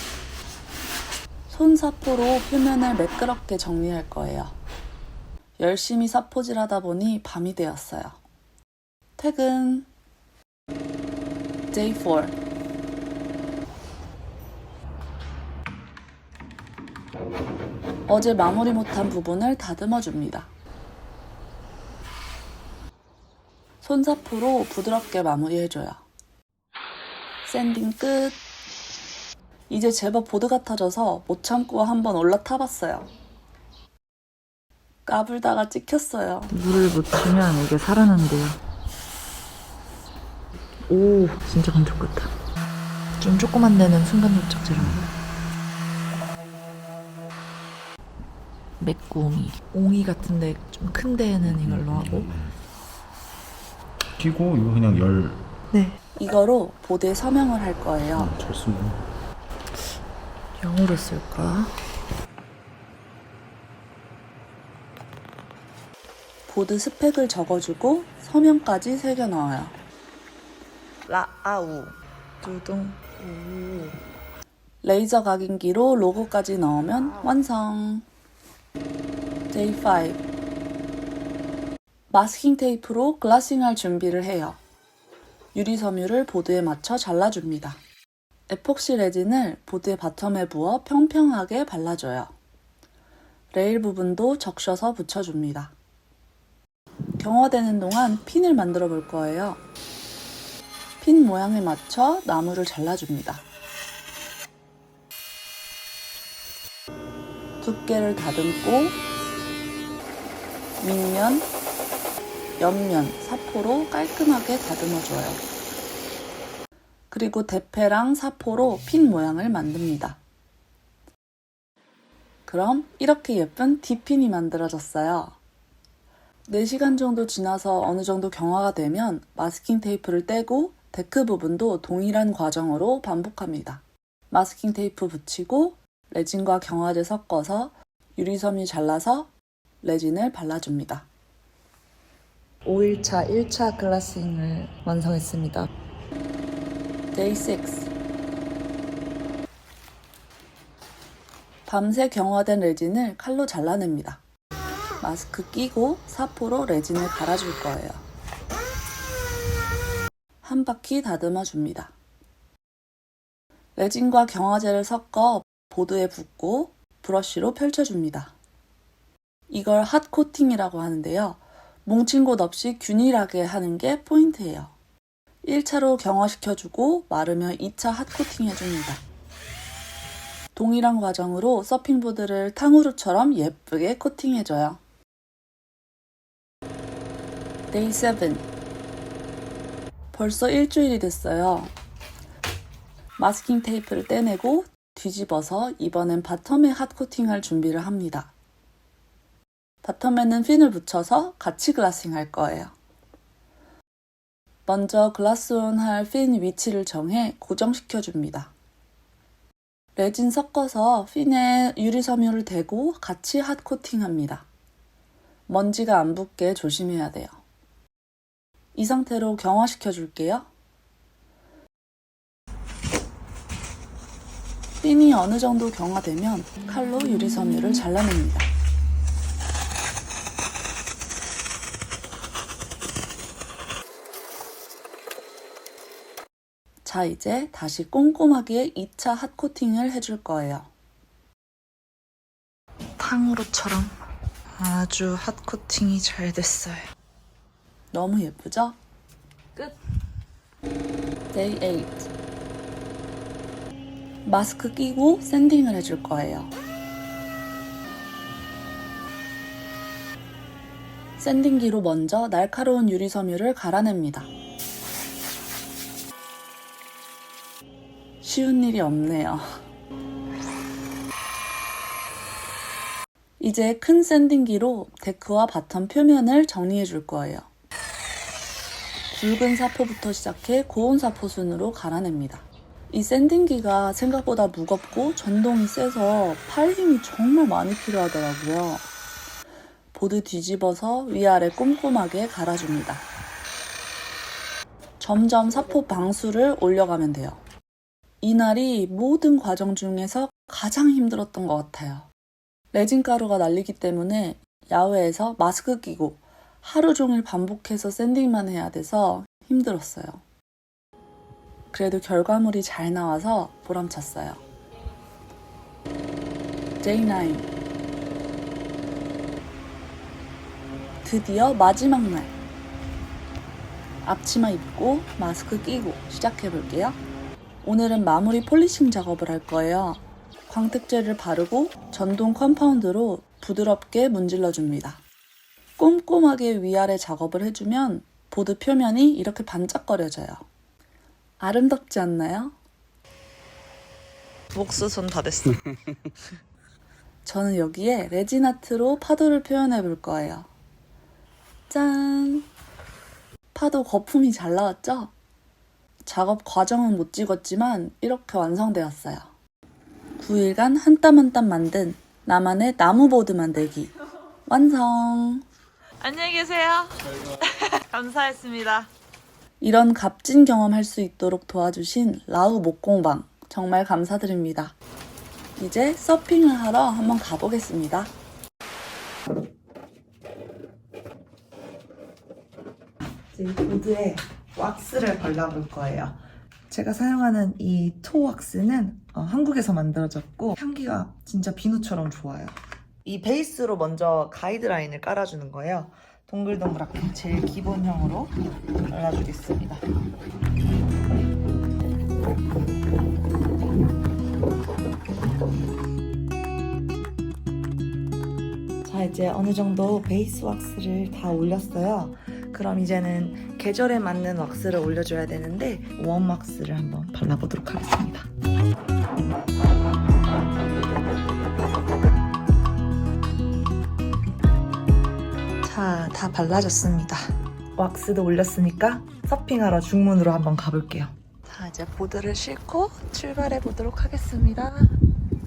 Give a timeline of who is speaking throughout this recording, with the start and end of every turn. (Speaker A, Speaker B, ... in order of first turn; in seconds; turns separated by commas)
Speaker A: 1.5-4.5, Speaker A: 5.6-8.2, Speaker A: 9.2-9.9, Speaker A: 11.7-12.3, Speaker A: 18.1-20.5, Speaker A: 23.8-26.0, Speaker A: 27.4-28.4, Speaker A: 29.7-33.1, Speaker A: 35.0-36.5, Speaker B: 36.5-38.6, Speaker B: 40.9-42.3, Speaker B: 43.2-45.1, Speaker C: 44.7-45.1, Speaker B: 48.8-52.3, Speaker C: 51.4-52.5, Speaker C: 54.1-55.5, Speaker B: 55.7-56.0, Speaker A: 56.1-58.4, Speaker C: 58.1-59.0, Speaker B: 60.6-61.7, Speaker A: 66.5-69.7, Speaker B: 71.1-74.0, Speaker A: 74.8-78.0, Speaker A: 79.5-80.2, Speaker A: 82.1-84.6, Speaker A: 85.5-87.8, Speaker A: 88.5-92.3, Speaker A: 93.5-95.7, Speaker A: 97.2-99.6, Speaker A: 101.0-103.5, Speaker A: 107.6-109.0, Speaker A: 110.8-111.5, Speaker A: 112.6-115.4, Speaker A: 117.1-120.2, Speaker A: 122.5-125.4, Speaker A: 126.5-141.1, Speaker B: 142.6-145.7, Speaker A: 147.1-147.9, Speaker A: 151.7-154.2, Speaker A: 155.0-158.0, Speaker A: 160.4-161.9, Speaker A: 163.8-168.3, Speaker A: 169.5-174.7, Speaker A: 175.4-179.0, Speaker A: 180.5-184.8, Speaker A: 187.7-188.4, Speaker A: 190.1-191.7, Speaker A: 193.2-198.3, Speaker A: 199.8-202.7, Speaker A: 204.7-208.5, Speaker A: 209.9-214.5, Speaker A: 215.5-217.4, Speaker A: 218.7-220.5, Speaker A: 224.8-228.5, Speaker A: 236.8-240.7, Speaker B: 243.0-243.9, Speaker B: 244.6-246.9, Speaker A: 247.9-248.8, Speaker A: 251.3-252.1, Speaker A: 254.2-256.5, Speaker A: 261.2-264.3, Speaker A: 268.2-269.4, Speaker A: 273.4-277.5, Speaker A: 279.1-288.9, Speaker A: 289.9-293.0, Speaker A: 295.0-297.4, Speaker A: 298.2-302.1, Speaker A: 302.7-310.2, Speaker A: 311.7-314.4, Speaker A: 316.8-317.5, Speaker A: 321.0-322.3, Speaker A: 324.0-327.0, Speaker A: 327.6-335.0, Speaker A: 335.8-340.5, Speaker A: 341.4-342.6, Speaker B: 344.5-345.6, Speaker A: 347.2-350.5, Speaker A: 351.7-352.5, Speaker A: 353.5-355.1, Speaker A: 356.1-359.3, Speaker A: 360.2-363.9, Speaker A: 364.4-365.4, Speaker B: 366.0-368.9, Speaker A: 369.6-374.7, Speaker A: 375.6-378.1, Speaker B: 383.3-398.4, Speaker B: 398.9-399.8, Speaker B: 408.8-418.3, Speaker B: 425.6-434.9